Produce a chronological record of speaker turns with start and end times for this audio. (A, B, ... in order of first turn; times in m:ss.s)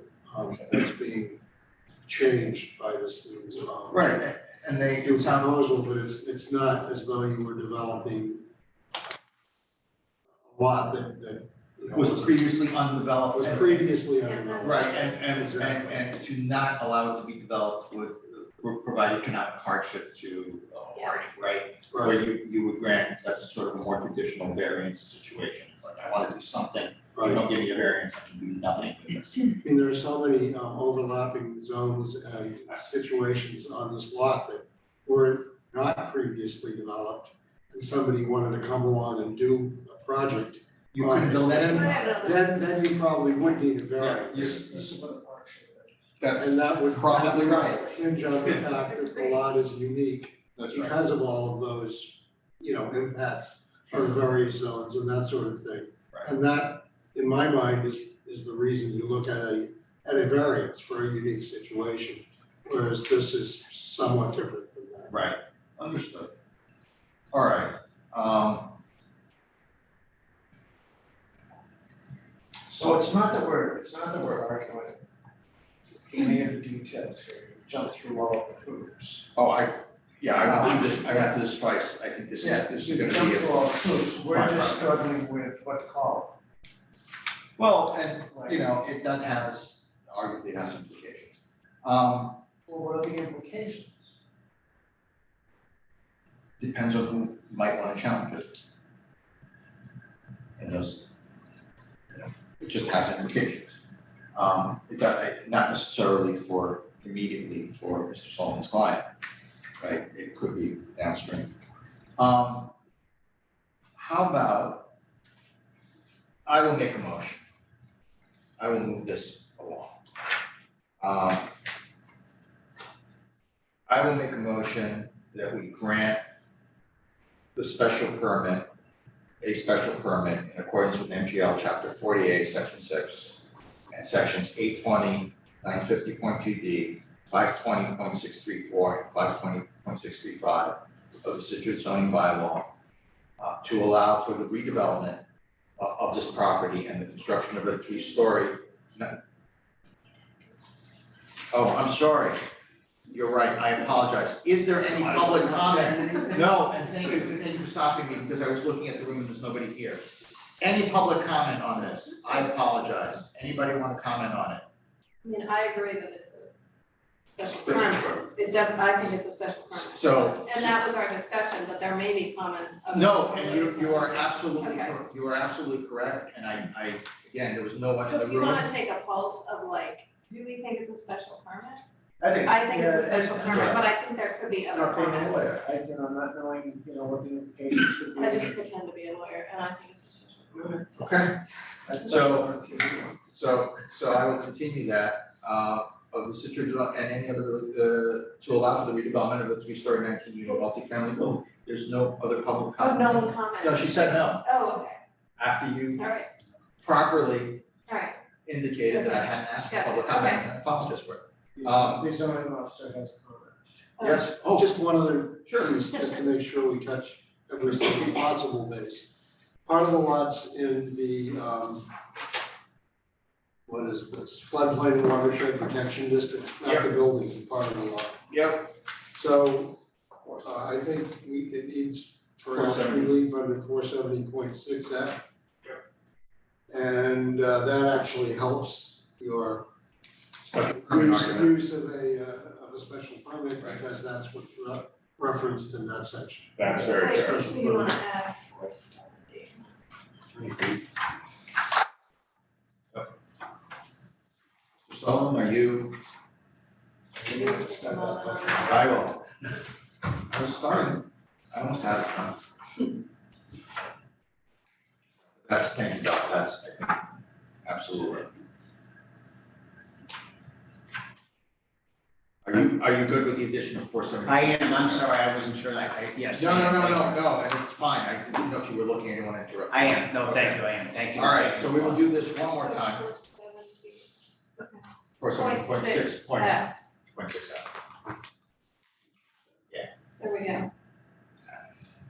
0:00.3-0:01.4 A
0:02.1-0:04.2 A
0:03.9-0:05.5 B
0:05.0-0:08.5 A
0:10.5-0:12.4 A
0:11.9-0:13.9 B
0:13.4-0:16.1 A
0:14.2-0:15.2 C
0:14.6-0:29.4 B
0:21.9-0:22.2 A
0:27.2-0:27.4 A
0:29.6-0:45.0 A
0:40.9-0:42.3 B
0:41.5-0:42.4 C
0:44.0-0:45.3 D
0:46.2-0:48.0 B
0:46.4-1:05.2 A
0:49.0-0:49.4 C
0:50.6-0:51.0 B
1:05.1-1:06.3 B
1:07.3-1:08.8 B
1:12.7-1:15.0 D
1:16.3-1:19.2 D
1:19.3-1:25.0 B
1:22.4-1:26.3 D
1:27.6-1:32.4 B
1:28.3-1:28.6 D
1:32.7-1:33.8 D
1:36.6-1:38.6 B
1:40.6-1:41.1 B
1:42.1-1:43.8 B
1:44.4-1:49.1 B
1:49.8-1:51.5 B
1:52.2-1:52.7 B
1:54.0-1:54.9 B
1:56.5-1:57.4 B
1:58.6-2:00.0 B
2:01.0-2:01.5 B
2:03.9-2:06.2 B
2:07.6-2:08.7 B
2:09.4-2:13.4 B
2:13.9-2:22.7 B
2:23.4-2:25.2 B
2:25.8-2:29.2 B
2:31.5-2:32.4 B
2:33.1-2:44.6 B
2:34.9-2:36.5 E
2:45.2-2:46.5 C
2:47.4-2:55.0 C
2:47.6-2:48.3 B
2:49.8-2:50.8 B
2:52.9-2:58.7 B
2:58.0-3:01.8 C
3:02.2-3:03.7 D
3:02.4-3:05.5 C
3:03.3-3:03.8 E
3:03.5-3:03.8 B
3:05.1-3:08.4 D
3:08.2-3:11.2 C
3:11.0-3:11.4 B
3:11.9-3:13.0 D
3:12.0-3:12.6 B
3:13.3-3:24.5 B
3:22.8-3:25.0 C
3:25.4-3:26.0 B
3:26.0-3:26.3 C
3:26.8-3:27.6 B
3:27.9-3:28.2 C
3:28.5-3:32.1 B
3:28.9-3:30.4 C
3:31.6-3:33.5 D
3:34.0-3:34.3 C
3:34.0-3:34.7 B
3:34.4-3:39.1 A
3:35.5-3:35.8 B
3:39.6-3:41.9 A
3:43.7-3:48.2 A
3:48.3-3:48.7 B
3:49.1-3:49.8 A
3:50.4-3:55.2 A
3:52.5-3:53.2 B
3:56.7-3:59.7 A
4:00.5-4:08.0 A
4:00.5-4:01.6 B
4:06.6-4:07.5 B
4:06.9-4:09.6 C
4:10.4-4:10.7 B
4:14.9-4:16.0 B
4:17.2-4:19.0 C
4:18.0-4:18.5 E
4:18.6-4:19.2 B
4:20.3-4:22.4 B
4:25.4-4:27.1 B
4:27.6-4:28.3 B
4:32.4-4:35.1 B
4:34.3-4:37.2 E
4:36.3-4:43.1 B
4:39.7-4:42.0 E
4:42.3-4:46.7 C
4:45.2-4:47.8 B
4:50.2-4:50.7 C